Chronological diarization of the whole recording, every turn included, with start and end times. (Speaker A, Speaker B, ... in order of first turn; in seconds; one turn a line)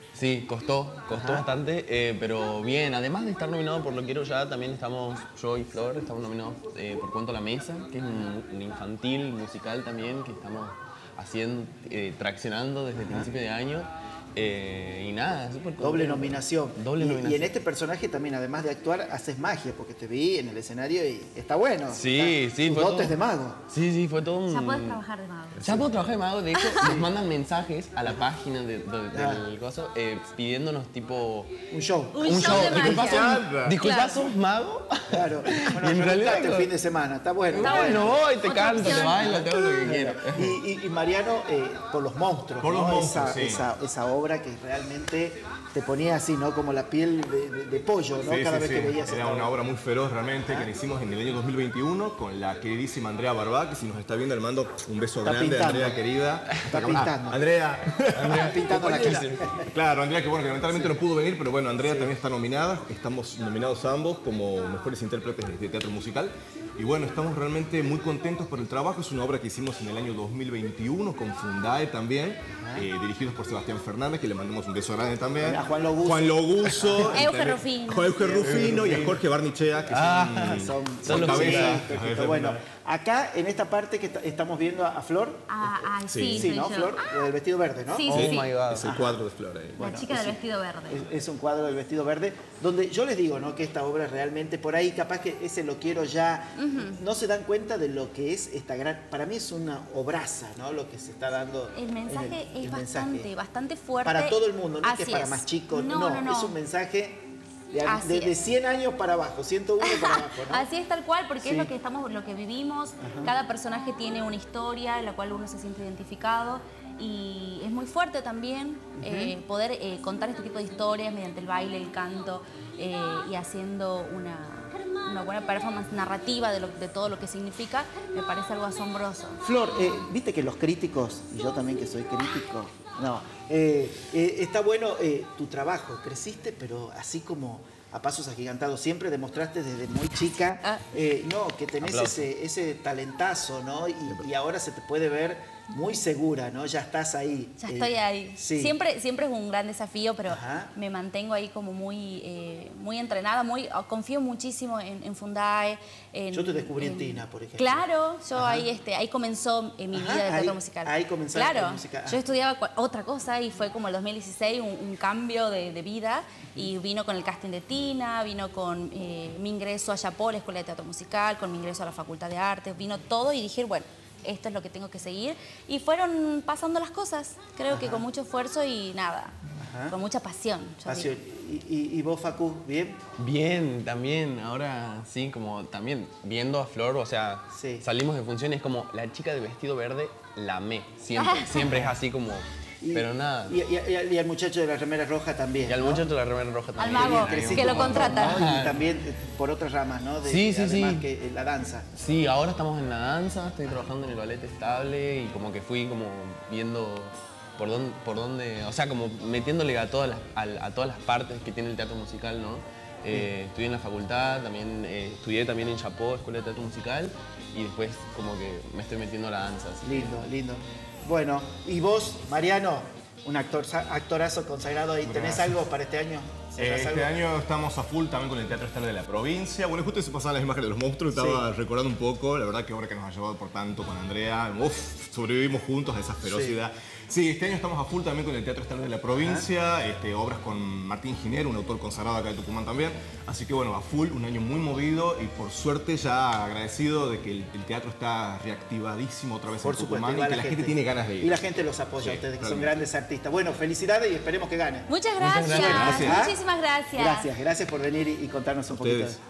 Speaker A: 0.1-17.6
Speaker B: 1.1-1.5
Speaker B: 13.0-13.3
Speaker B: 15.8-23.6
Speaker A: 21.9-23.2
Speaker A: 23.7-25.0
Speaker C: 24.5-25.8
Speaker A: 25.6-31.5
Speaker C: 26.5-26.9
Speaker B: 29.1-29.4
Speaker B: 31.7-33.0
Speaker C: 32.1-34.2
Speaker A: 32.2-36.7
Speaker D: 32.8-33.8
Speaker B: 35.1-38.2
Speaker A: 37.5-40.6
Speaker C: 37.6-39.5
Speaker B: 38.9-49.5
Speaker D: 42.6-43.6
Speaker D: 48.2-59.1
Speaker B: 55.2-56.0
Speaker B: 56.7-57.5
Speaker A: 58.1-59.4
Speaker B: 58.3-59.7
Speaker D: 59.7-82.6
Speaker A: 60.7-61.0
Speaker B: 61.8-62.1
Speaker B: 72.5-72.9
Speaker B: 75.4-77.4
Speaker C: 77.1-78.4
Speaker A: 78.4-79.2
Speaker B: 78.5-79.0
Speaker A: 79.9-81.9
Speaker B: 80.5-88.2
Speaker C: 85.5-87.1
Speaker D: 86.1-86.5
Speaker C: 87.9-88.5
Speaker A: 88.1-88.9
Speaker D: 88.1-89.9
Speaker B: 88.8-89.2
Speaker B: 89.8-103.3
Speaker C: 89.8-91.1
Speaker C: 96.6-97.0
Speaker C: 101.7-106.6
Speaker B: 104.0-110.7
Speaker C: 107.8-108.4
Speaker C: 109.8-129.4
Speaker B: 111.4-111.7
Speaker B: 113.0-113.3
Speaker B: 119.0-119.4
Speaker B: 129.4-148.8
Speaker A: 141.8-142.3
Speaker C: 147.6-179.4
Speaker B: 150.3-150.7
Speaker B: 156.3-158.7
Speaker B: 159.9-162.2
Speaker B: 177.7-178.1
Speaker B: 179.6-180.0
Speaker C: 179.9-181.1
Speaker B: 180.9-183.0
Speaker A: 183.2-193.6
Speaker B: 187.5-187.8
Speaker C: 191.2-191.9
Speaker B: 191.6-191.9
Speaker B: 192.8-196.1
Speaker A: 195.7-198.9
Speaker C: 196.8-198.5
Speaker B: 196.9-201.9
Speaker A: 200.2-201.1
Speaker A: 201.9-220.2
Speaker B: 219.8-227.2
Speaker D: 225.0-225.6
Speaker D: 226.6-251.4
Speaker B: 231.1-231.4
Speaker B: 236.2-236.6
Speaker B: 239.1-239.5
Speaker B: 249.6-254.9
Speaker D: 252.0-252.8
Speaker C: 254.9-257.3
Speaker A: 255.2-256.1
Speaker B: 255.5-256.4
Speaker D: 255.6-256.2
Speaker B: 256.9-259.2
Speaker D: 258.7-259.1